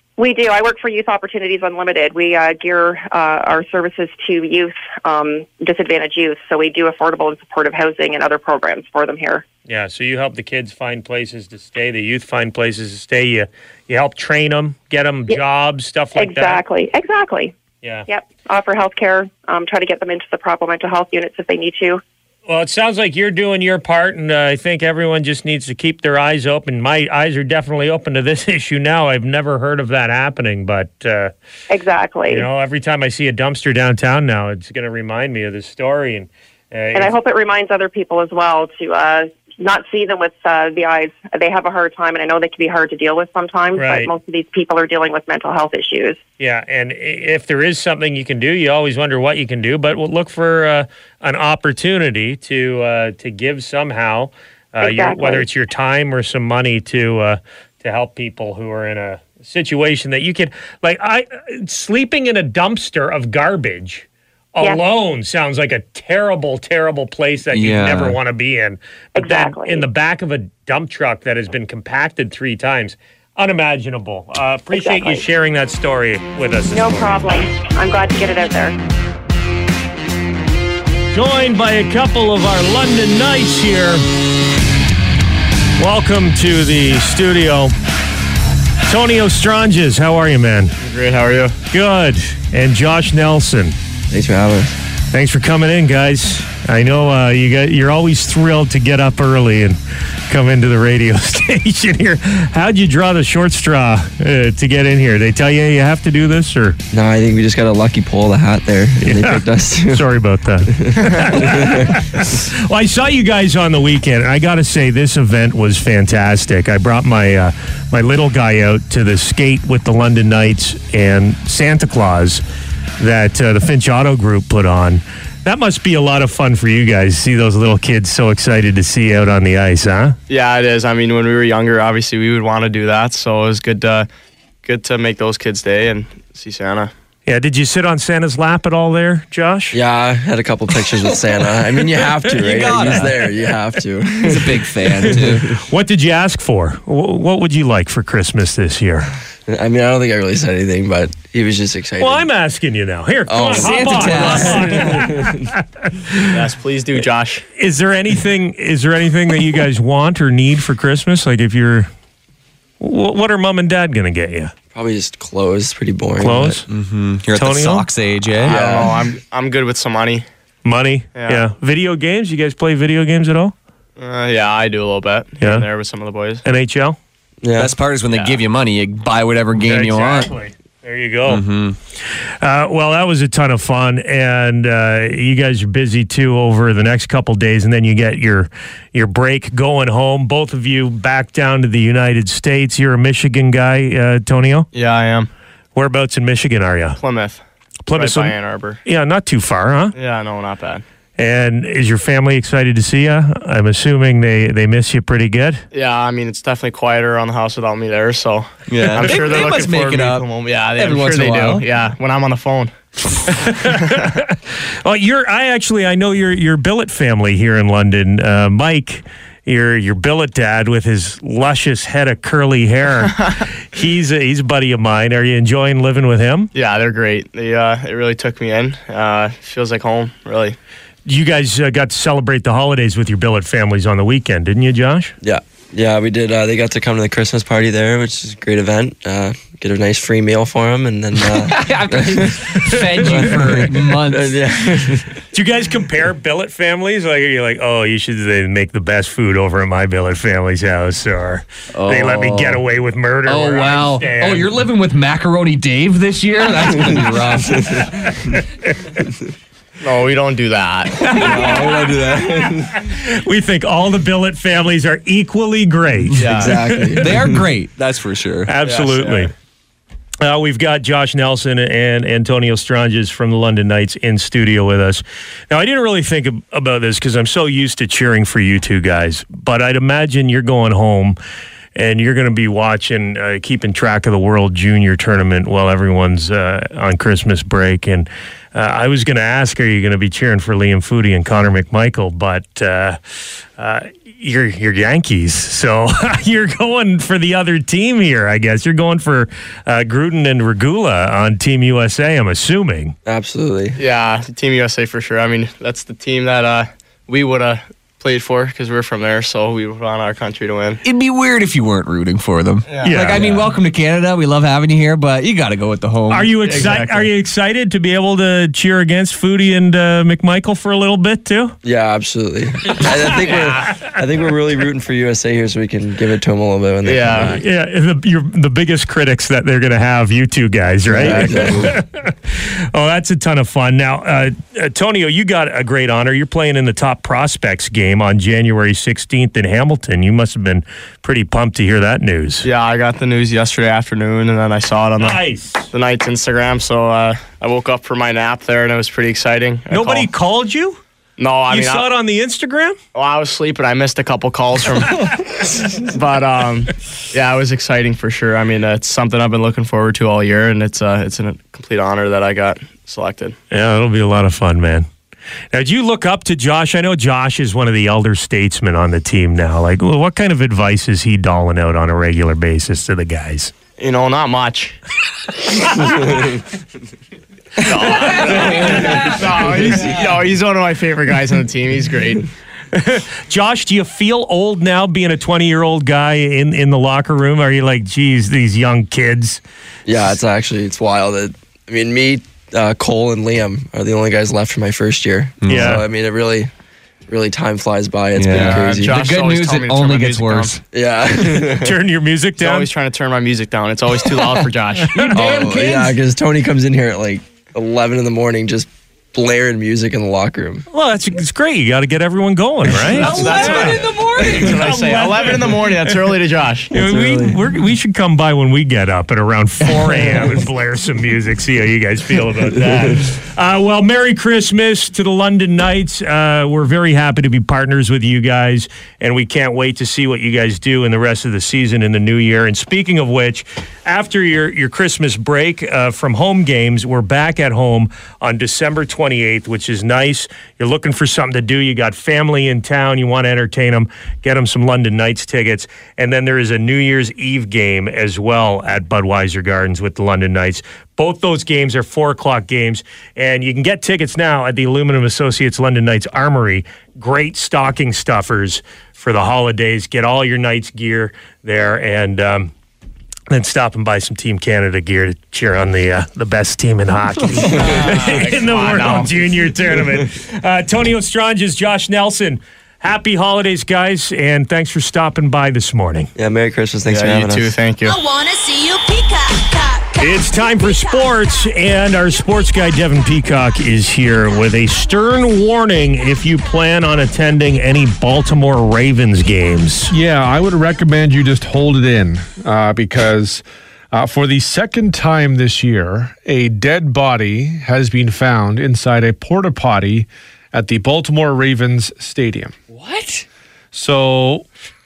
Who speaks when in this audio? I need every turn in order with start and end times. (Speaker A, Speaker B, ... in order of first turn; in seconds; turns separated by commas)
Speaker A: 0.2-9.4, Speaker B: 9.7-16.6, Speaker A: 16.2-17.5, Speaker A: 18.1-22.0, Speaker B: 22.5-31.3, Speaker A: 31.7-32.5, Speaker B: 32.3-37.1, Speaker A: 36.9-46.2, Speaker B: 43.8-44.1, Speaker B: 46.4-77.2, Speaker A: 54.8-55.5, Speaker C: 67.5-68.2, Speaker A: 69.2-69.9, Speaker A: 74.7-75.2, Speaker A: 76.7-78.8, Speaker B: 81.1-84.0, Speaker B: 85.8-87.7, Speaker B: 88.9-90.7, Speaker D: 90.8-91.6, Speaker B: 91.7-93.8, Speaker E: 94.1-94.7, Speaker B: 95.1-106.8, Speaker E: 106.9-110.1, Speaker B: 109.0-122.4, Speaker E: 110.7-111.9, Speaker B: 123.0-130.2, Speaker D: 130.3-134.1, Speaker D: 134.6-136.9, Speaker B: 137.3-139.8, Speaker E: 139.7-145.6, Speaker C: 142.4-143.2, Speaker C: 144.2-145.5, Speaker B: 145.0-149.1, Speaker E: 149.5-152.3, Speaker B: 152.0-156.2, Speaker E: 153.3-155.5, Speaker C: 153.6-154.8, Speaker D: 156.3-157.4, Speaker B: 157.6-161.9, Speaker B: 162.8-164.5, Speaker E: 164.7-166.6, Speaker B: 166.2-166.7, Speaker C: 166.7-168.9, Speaker B: 167.3-167.9, Speaker D: 168.4-170.2, Speaker E: 168.4-169.1, Speaker B: 170.7-173.5, Speaker D: 171.2-171.4, Speaker D: 174.0-176.4, Speaker B: 175.4-175.7, Speaker B: 176.4-177.0, Speaker E: 177.4-177.7, Speaker C: 177.6-180.3, Speaker B: 179.6-181.4, Speaker C: 181.3-181.8, Speaker B: 182.3-194.7, Speaker D: 194.7-195.3, Speaker B: 195.8-197.0, Speaker D: 197.0-197.4, Speaker B: 197.9-199.9, Speaker D: 197.9-198.8, Speaker D: 200.0-200.8, Speaker B: 201.2-205.6, Speaker D: 205.7-212.7, Speaker C: 208.7-211.7, Speaker B: 213.3-226.5, Speaker D: 226.6-230.6, Speaker B: 231.1-235.1, Speaker E: 235.2-242.3, Speaker C: 241.2-244.4, Speaker B: 242.6-243.2, Speaker E: 243.1-245.1, Speaker B: 245.3-254.5, Speaker C: 251.7-252.6, Speaker C: 253.3-257.9, Speaker D: 259.8-261.0, Speaker C: 261.0-261.3, Speaker B: 261.1-267.2, Speaker E: 261.1-262.8, Speaker D: 266.2-266.5, Speaker E: 266.3-267.1, Speaker C: 266.9-268.5, Speaker B: 268.5-269.3, Speaker D: 268.6-269.3, Speaker B: 270.2-281.2, Speaker B: 281.8-293.0, Speaker B: 293.6-302.9, Speaker E: 303.1-303.8, Speaker D: 303.8-310.8, Speaker C: 310.8-316.3, Speaker D: 312.7-313.2, Speaker B: 312.8-313.2, Speaker E: 313.2-313.5, Speaker B: 316.1-321.6, Speaker D: 316.4-317.1, Speaker E: 321.6-327.4, Speaker B: 322.8-323.9, Speaker D: 326.9-327.3, Speaker B: 327.3-342.4, Speaker E: 330.9-331.8, Speaker D: 342.4-345.2, Speaker B: 345.0-345.7, Speaker D: 345.7-350.1, Speaker B: 349.7-350.8, Speaker D: 351.2-351.8, Speaker B: 351.4-352.8, Speaker D: 352.9-355.0, Speaker D: 355.9-363.4, Speaker B: 363.5-364.9, Speaker B: 365.5-373.5, Speaker D: 373.8-374.8, Speaker B: 375.6-376.1, Speaker D: 377.6-382.3, Speaker C: 378.3-378.9, Speaker E: 378.7-379.1, Speaker B: 382.7-389.4, Speaker E: 389.9-396.5, Speaker C: 395.4-395.8, Speaker B: 395.5-395.9, Speaker E: 397.1-399.1, Speaker C: 398.2-400.6, Speaker D: 398.3-400.6, Speaker E: 400.7-401.8, Speaker B: 401.2-402.7, Speaker D: 402.4-405.1, Speaker C: 404.1-404.5, Speaker C: 405.1-406.0, Speaker E: 405.2-410.7, Speaker B: 410.7-416.1, Speaker C: 412.8-414.6, Speaker D: 413.2-416.7, Speaker B: 416.7-462.5, Speaker C: 416.9-417.4, Speaker C: 419.6-420.2, Speaker B: 463.3-476.1, Speaker D: 467.6-469.2, Speaker E: 476.2-477.5, Speaker D: 476.9-478.0, Speaker F: 477.9-479.9, Speaker B: 480.0-489.9, Speaker G: 489.9-502.5, Speaker C: 502.7-503.2, Speaker G: 503.7-504.4